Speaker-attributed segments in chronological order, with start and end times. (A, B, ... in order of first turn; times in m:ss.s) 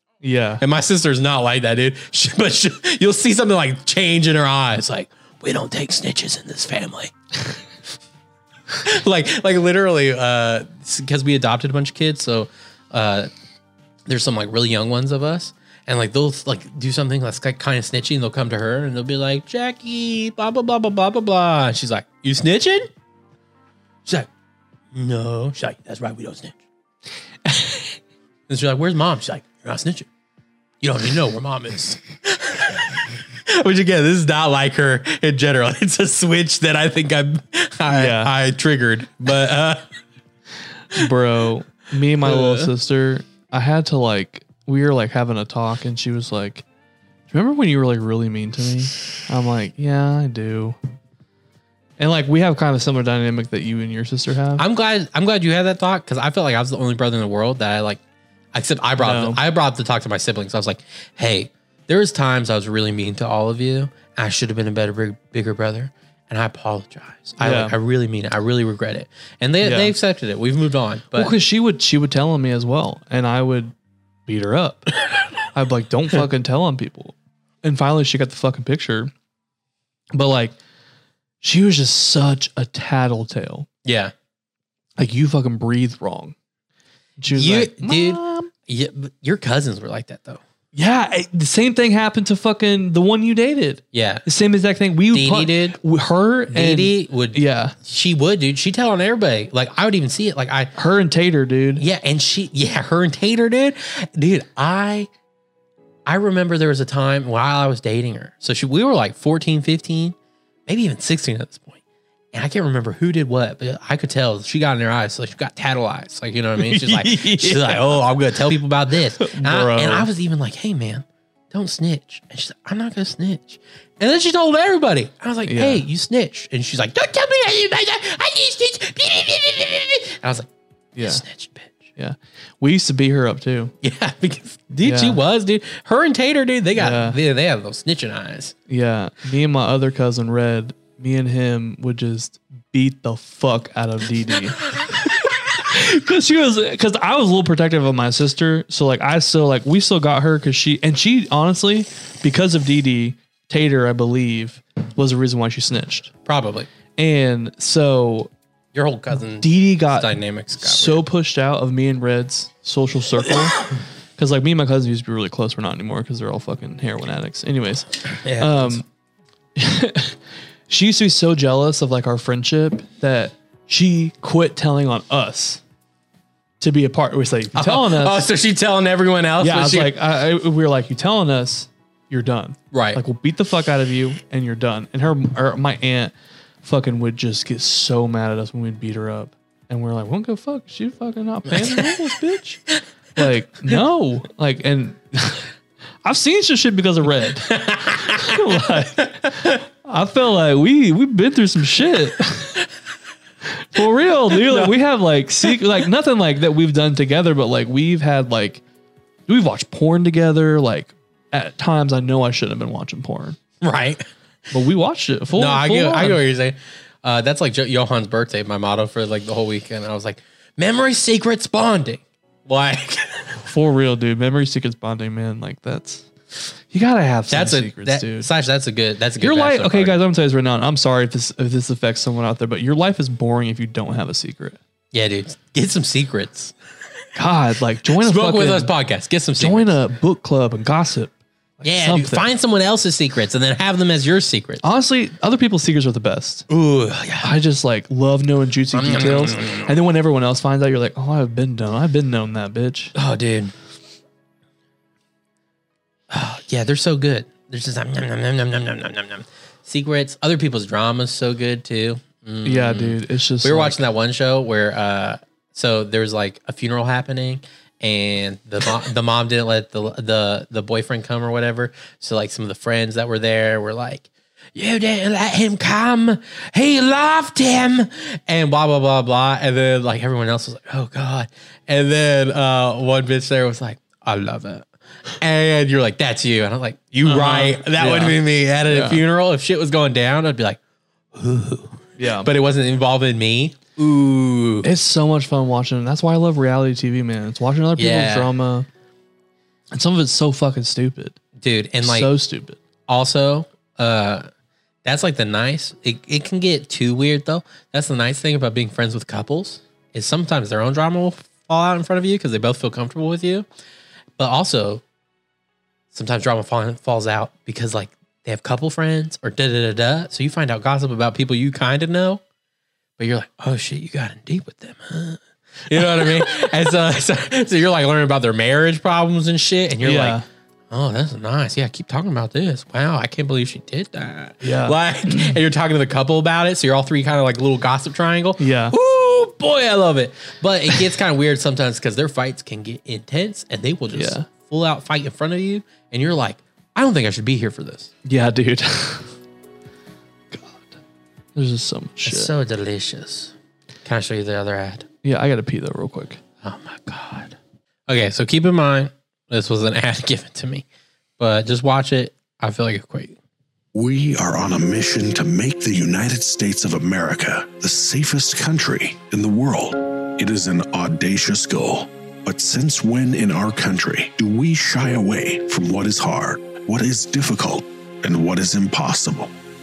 0:00.2-0:00.6 A
0:00.6-0:07.1 B
0:08.8-0:13.3 B
0:14.1-0:22.9 B
0:24.9-0:26.6 B
0:28.5-0:30.1 B
0:30.8-0:39.8 B
0:37.9-0:38.3 A
0:40.9-0:46.6 A
0:42.2-0:42.7 B
0:47.3-0:50.8 A
0:52.0-0:54.6 A
0:54.6-0:58.0 B
0:58.5-1:11.4 B
0:59.0-0:59.4 A
1:07.4-1:07.8 A
1:09.6-1:09.9 A
1:11.1-1:13.7 A
1:14.3-1:14.9 A
1:15.5-1:19.1 A
1:20.1-1:20.5 A
1:21.4-1:23.7 A
1:23.8-1:24.1 B
1:25.0-1:26.4 A
1:27.2-1:28.5 A
1:27.3-1:30.4 B
1:30.7-1:37.7 A
1:33.9-1:34.2 B
1:35.1-1:35.8 B
1:36.5-1:40.7 B
1:40.8-1:41.8 A
1:41.8-1:45.1 B
1:46.1-1:51.8 B
1:52.3-2:10.5 B
1:56.6-1:58.0 A
1:59.2-2:00.1 A
2:05.5-2:05.8 A
2:11.0-2:11.2 A
2:11.0-2:11.8 B
2:12.0-2:13.7 A
2:13.8-2:18.6 B
2:14.8-2:15.2 A
2:16.8-2:17.2 A
2:18.7-2:36.1 A
2:36.3-2:36.7 B
2:37.0-2:38.3 A
2:38.7-2:41.0 B
2:39.4-2:48.8 A
2:48.2-2:48.8 B
2:49.6-2:50.2 A
2:50.7-2:55.6 A
2:56.6-2:58.2 A
2:57.6-3:00.0 B
2:59.4-3:06.1 A
3:02.7-3:03.0 B
3:06.6-3:12.6 A
3:11.5-3:12.0 B
3:13.2-3:15.5 A
3:16.0-3:22.6 A
3:17.5-3:18.3 B
3:23.4-3:28.6 A
3:24.4-3:24.7 B
3:29.3-3:33.4 A
3:33.6-3:34.0 B
3:34.5-3:36.2 A
3:35.3-3:43.4 B
3:43.4-3:46.1 A
3:46.7-3:48.3 A
3:47.3-3:50.0 B
3:49.2-3:54.6 A
3:54.9-3:56.5 B
3:57.2-3:58.7 A
3:57.9-3:59.8 B
3:59.4-4:02.2 A
4:01.6-4:04.6 B
4:04.6-4:06.5 A
4:06.5-4:07.4 B
4:07.2-4:12.9 A
4:08.7-4:09.8 B
4:13.0-4:13.5 B
4:16.1-4:50.6 B
4:22.4-4:23.8 A
4:47.0-4:49.0 A
4:51.1-4:54.7 B
4:52.0-4:52.3 A
4:54.6-4:58.7 A
4:57.8-4:58.3 B
4:59.7-5:01.2 A
5:01.4-5:02.1 B
5:01.8-5:02.6 A
5:02.9-5:04.3 B
5:04.8-5:13.5 B
5:14.2-5:14.8 B
5:15.9-5:22.2 B
5:23.0-5:47.9 B
5:29.8-5:30.3 A
5:34.4-5:35.4 A
5:38.4-5:38.8 A
5:43.9-5:44.3 A
5:48.0-5:49.1 A
5:50.3-5:50.8 A
5:51.4-5:52.3 A
5:52.0-5:53.3 B
5:53.8-5:54.9 B
5:55.0-5:56.2 A
5:56.4-6:00.6 B
6:01.2-6:03.2 B
6:03.7-6:19.3 C